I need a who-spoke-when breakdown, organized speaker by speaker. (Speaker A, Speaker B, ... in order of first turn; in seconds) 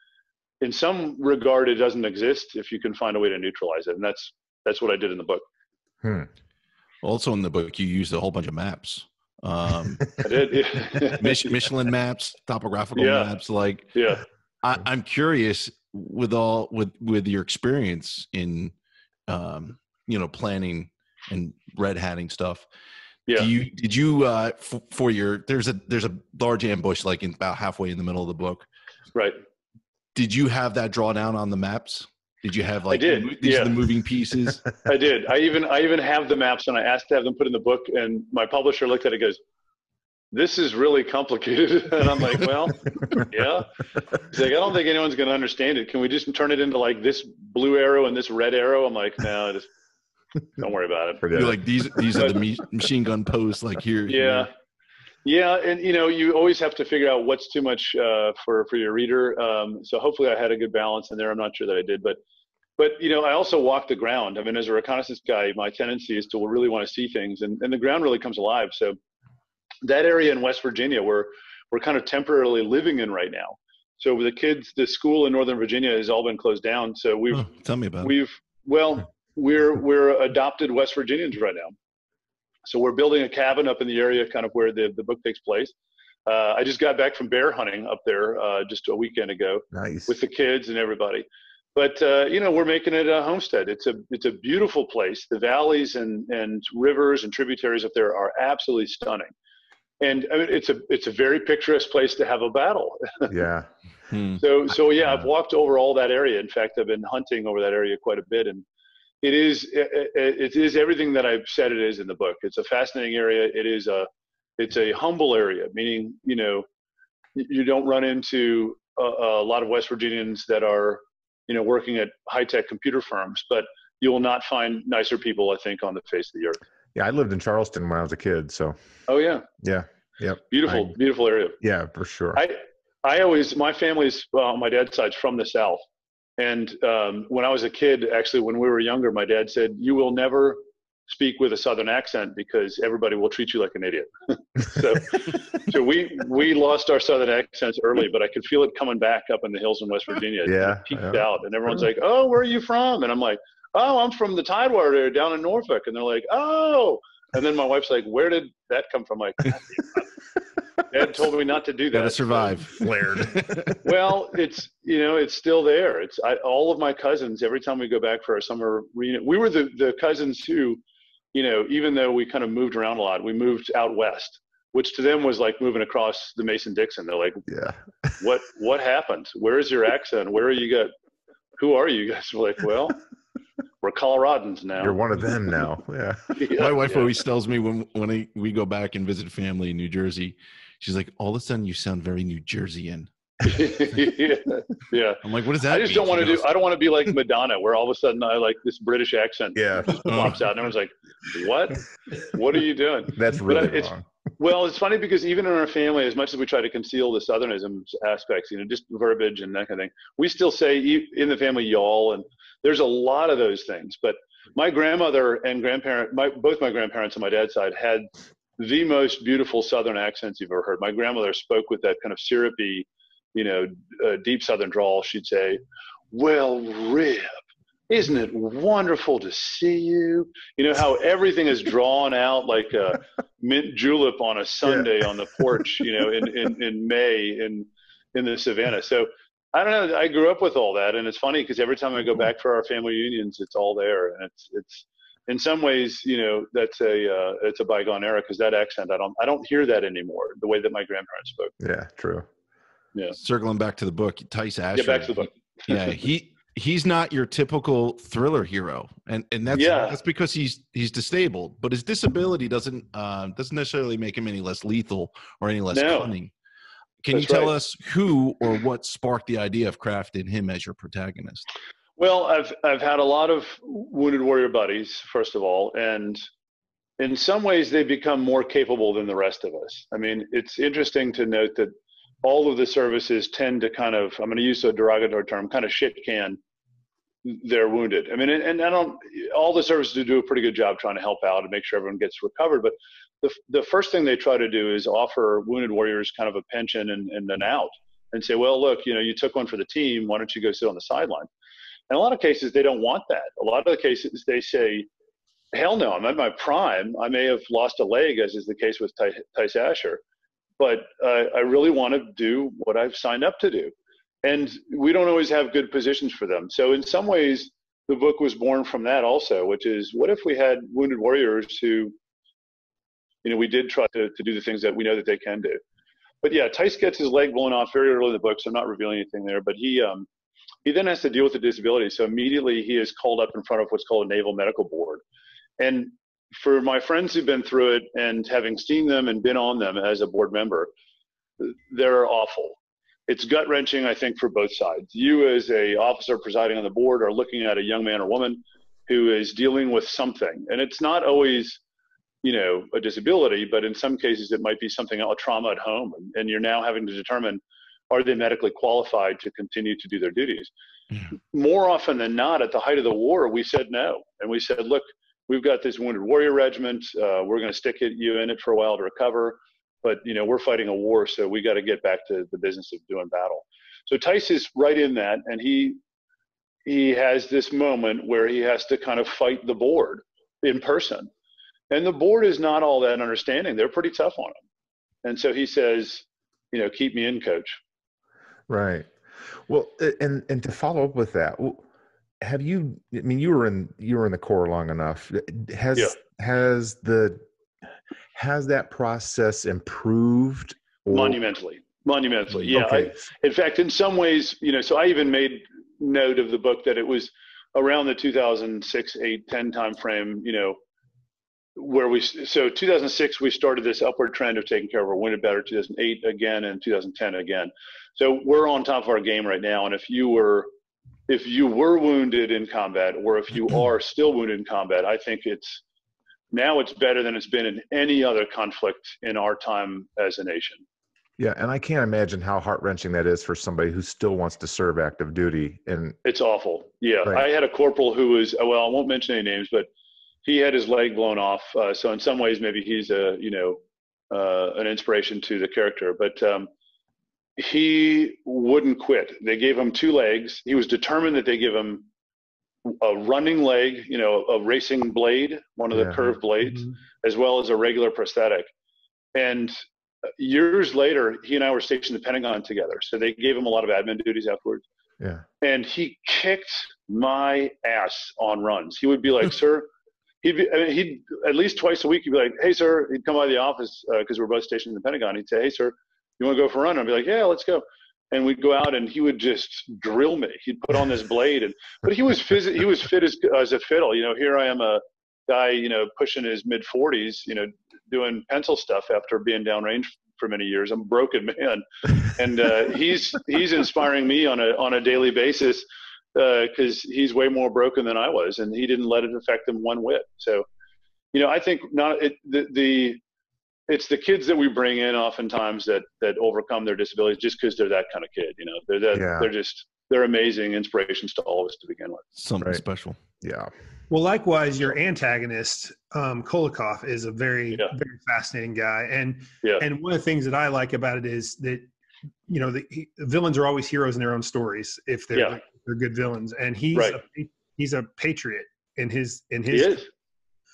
Speaker A: 0.6-5.4, 10.2-11.5, 12.9-13.3, 13.9-14.2, 32.9-33.7, 34.8-39.4, 40.3-49.7, 50.6-51.3, 54.1-54.5, 55.2-62.2, 62.8-69.0, 69.8-77.5, 78.0-81.7, 82.6-85.7, 86.2-99.3, 100.0-103.3, 104.4-108.6, 109.2-116.7, 117.3-126.6, 129.1-129.4, 130.5-131.6, 132.3-135.8, 136.4-160.1, 160.9-162.6, 163.8-170.8, 171.3-177.4, 178.2-180.9, 181.6-183.0, 183.8-185.0, 186.3-187.1, 193.4-218.1, 218.6-227.4, 227.9-251.5, 254.7-255.8, 259.5-260.0, 265.7-266.1, 267.1-267.5, 272.0-276.2, 277.0-286.4, 287.2-301.3, 301.9-304.9, 305.5-310.0, 310.6-321.9, 323.2-325.6, 326.2-330.1, 330.6-335.0, 335.6-340.7, 341.4-351.6, 352.2-360.5, 361.1-375.8, 376.6-381.1, 381.7-384.4, 385.0-387.6, 400.9-410.6, 411.6-420.5, 421.1-425.6, 426.3-430.6, 436.0-439.7, 440.2-443.6, 444.1-446.5, 447.4-451.9, 452.6-458.5, 459.1-459.6, 460.2-464.6, 465.4-469.7, 470.2-500.4, 501.1-503.0, 503.7-512.0, 525.1-525.4, 529.5-529.9
Speaker B: 6.0-6.3, 51.2-52.1, 89.7-90.1, 103.3-103.7, 126.9-128.7, 129.6-130.9, 131.6-132.4, 150.4-151.3, 177.5-177.8, 184.8-186.3, 199.5-200.3, 203.1-204.0, 251.6-252.2, 388.5-391.6, 392.2-397.2, 398.1-401.2, 402.5-403.1, 431.2-436.0, 455.7-456.0, 508.9-509.3, 513.2-513.5
Speaker C: 7.0-10.2, 11.0-14.0, 14.6-18.7, 19.3-22.6, 23.4-28.6, 30.1-34.7, 51.3-54.5, 77.3-78.1, 104.1-104.4, 161.9-163.7, 186.5-193.1, 195.2-196.6, 200.1-200.3, 253.2-266.3, 267.0-271.5, 512.1-513.0
Speaker D: 513.9-521.7, 522.3-529.8